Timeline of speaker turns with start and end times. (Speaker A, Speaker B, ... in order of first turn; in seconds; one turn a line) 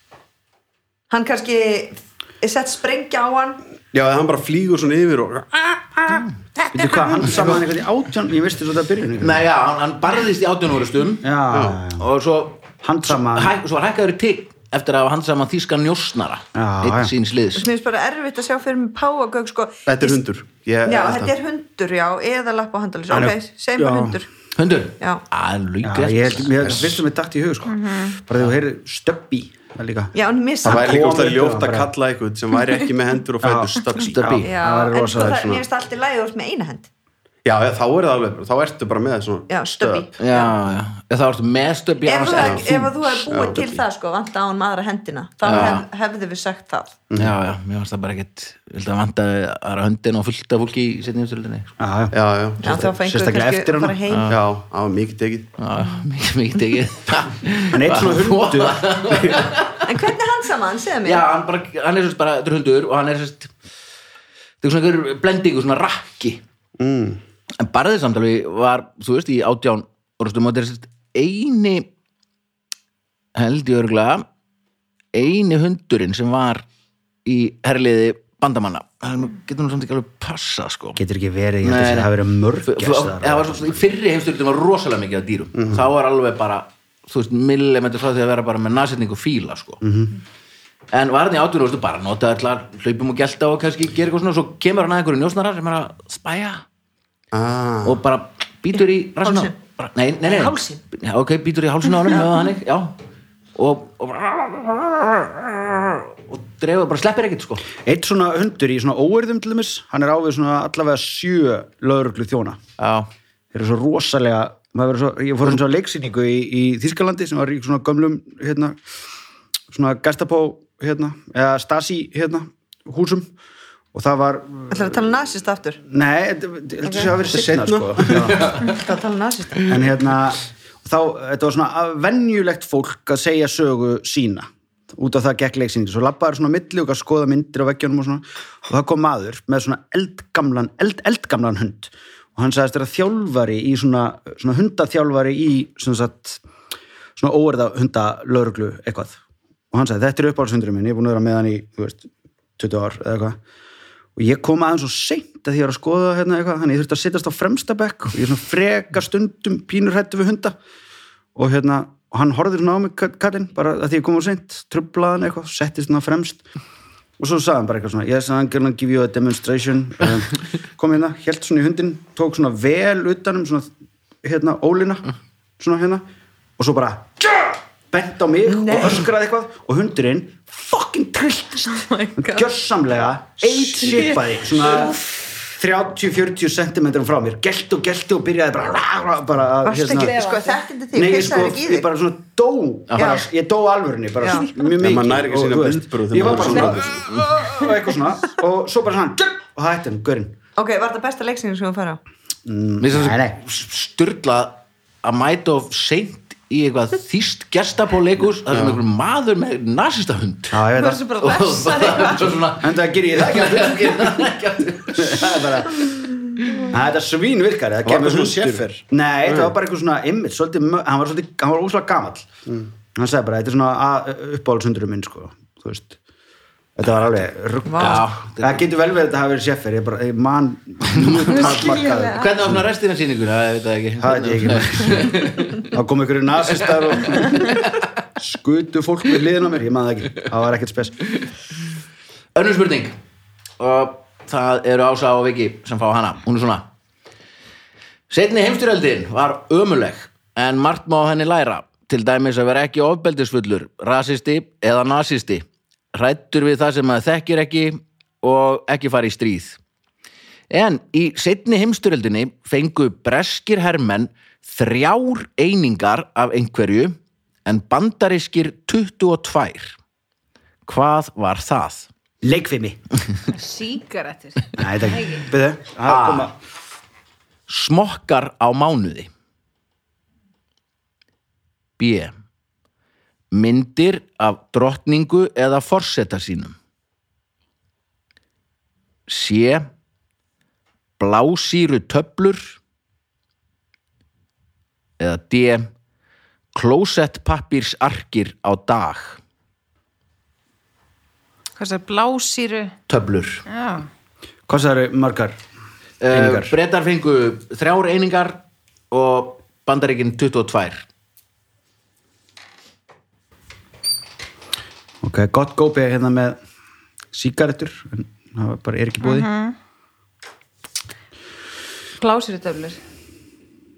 Speaker A: 1.1-3.6
Speaker B: 3.9-6.3
Speaker C: 6.2-7.6
Speaker D: 6.7-9.4
Speaker C: 9.2-11.3
Speaker D: 11.2-12.0
Speaker B: 11.5-11.8
Speaker C: 11.9-17.7
Speaker D: 12.8-13.5
Speaker D: 16.6-17.1
Speaker A: 17.6-20.2
Speaker B: 19.9-21.3
Speaker A: 20.9-24.3
Speaker D: 23.1-24.2
Speaker C: 24.6-26.9
Speaker D: 25.8-30.1
Speaker E: 27.7-28.2
Speaker A: 30.1-31.1
Speaker D: 30.6-31.9
Speaker B: 30.6-34.2
Speaker D: 33.4-35.6
Speaker C: 34.0-34.5
Speaker A: 34.4-36.9
Speaker B: 35.1-35.6
Speaker B: 37.5-40.1
Speaker A: 39.5-40.5
Speaker C: 40.2-43.1
Speaker A: 42.0-47.0
Speaker B: 42.3-43.8
Speaker C: 45.4-45.9
Speaker B: 45.5-45.8
Speaker C: 47.2-51.7
Speaker D: 51.8-54.0
Speaker B: 52.1-52.9
Speaker A: 52.6-54.4
Speaker C: 54.1-54.4
Speaker B: 54.3-55.5
Speaker C: 55.6-59.8
Speaker D: 57.7-59.0
Speaker A: 59.9-61.3
Speaker C: 61.0-63.5
Speaker C: 64.6-66.4
Speaker B: 66.8-67.2
Speaker C: 67.6-71.9
Speaker C: 73.3-74.3
Speaker C: 75.1-76.7
Speaker C: 77.2-81.0
Speaker D: 81.0-83.8
Speaker C: 81.6-82.1
Speaker C: 82.7-89.8
Speaker B: 85.6-85.8
Speaker D: 89.8-90.1
Speaker C: 90.9-96.6
Speaker B: 97.3-98.0
Speaker C: 97.8-103.0
Speaker A: 98.8-99.5
Speaker A: 100.2-100.8
Speaker C: 103.6-107.7
Speaker D: 107.8-112.6
Speaker C: 112.8-113.1
Speaker D: 113.5-118.8
Speaker D: 119.7-123.3
Speaker D: 123.9-125.0
Speaker A: 124.7-125.8
Speaker D: 125.8-128.6
Speaker A: 126.8-127.1
Speaker B: 127.3-128.6
Speaker A: 128.5-129.8
Speaker D: 129.7-146.4
Speaker D: 147.2-149.2
Speaker D: 149.7-153.4
Speaker D: 154.2-160.6
Speaker D: 161.3-166.4
Speaker D: 167.2-173.7
Speaker D: 174.2-175.1
Speaker D: 175.6-176.0
Speaker D: 176.6-190.2
Speaker A: 178.5-179.1
Speaker E: 181.7-182.5
Speaker E: 183.8-185.0
Speaker A: 189.6-191.9
Speaker E: 189.8-190.6
Speaker D: 190.9-200.4
Speaker C: 192.9-193.2
Speaker A: 193.0-193.3
Speaker A: 194.2-194.6
Speaker E: 194.3-194.7
Speaker B: 194.8-197.0
Speaker A: 200.6-202.0
Speaker D: 202.5-203.4
Speaker C: 202.8-210.6
Speaker B: 208.5-208.8
Speaker D: 210.5-211.0
Speaker E: 210.7-212.4
Speaker C: 211.2-215.4
Speaker D: 212.6-214.3
Speaker D: 214.9-222.3
Speaker B: 217.8-218.7
Speaker B: 219.3-219.5
Speaker D: 222.9-226.0
Speaker D: 226.8-232.6
Speaker A: 227.7-228.1
Speaker C: 227.8-228.6
Speaker C: 230.9-235.7
Speaker A: 231.4-231.9
Speaker E: 231.6-232.1
Speaker D: 234.0-237.7
Speaker D: 238.2-241.0
Speaker C: 242.3-242.9
Speaker C: 243.6-246.7
Speaker C: 248.1-259.6
Speaker C: 260.5-269.8
Speaker C: 270.7-271.9
Speaker D: 272.2-272.8
Speaker E: 273.3-275.3
Speaker D: 274.6-276.4
Speaker C: 275.9-276.3
Speaker C: 277.5-279.1
Speaker C: 281.8-282.1
Speaker C: 283.3-286.6
Speaker C: 289.1-289.7
Speaker C: 291.0-292.6
Speaker C: 295.0-295.7
Speaker C: 296.6-299.2
Speaker E: 301.6-302.8
Speaker C: 302.9-303.4
Speaker E: 303.5-303.9
Speaker D: 304.5-305.4
Speaker C: 306.0-310.9
Speaker D: 306.1-306.5
Speaker D: 315.0-316.4
Speaker D: 317.1-319.3
Speaker E: 319.0-319.6
Speaker E: 322.0-322.8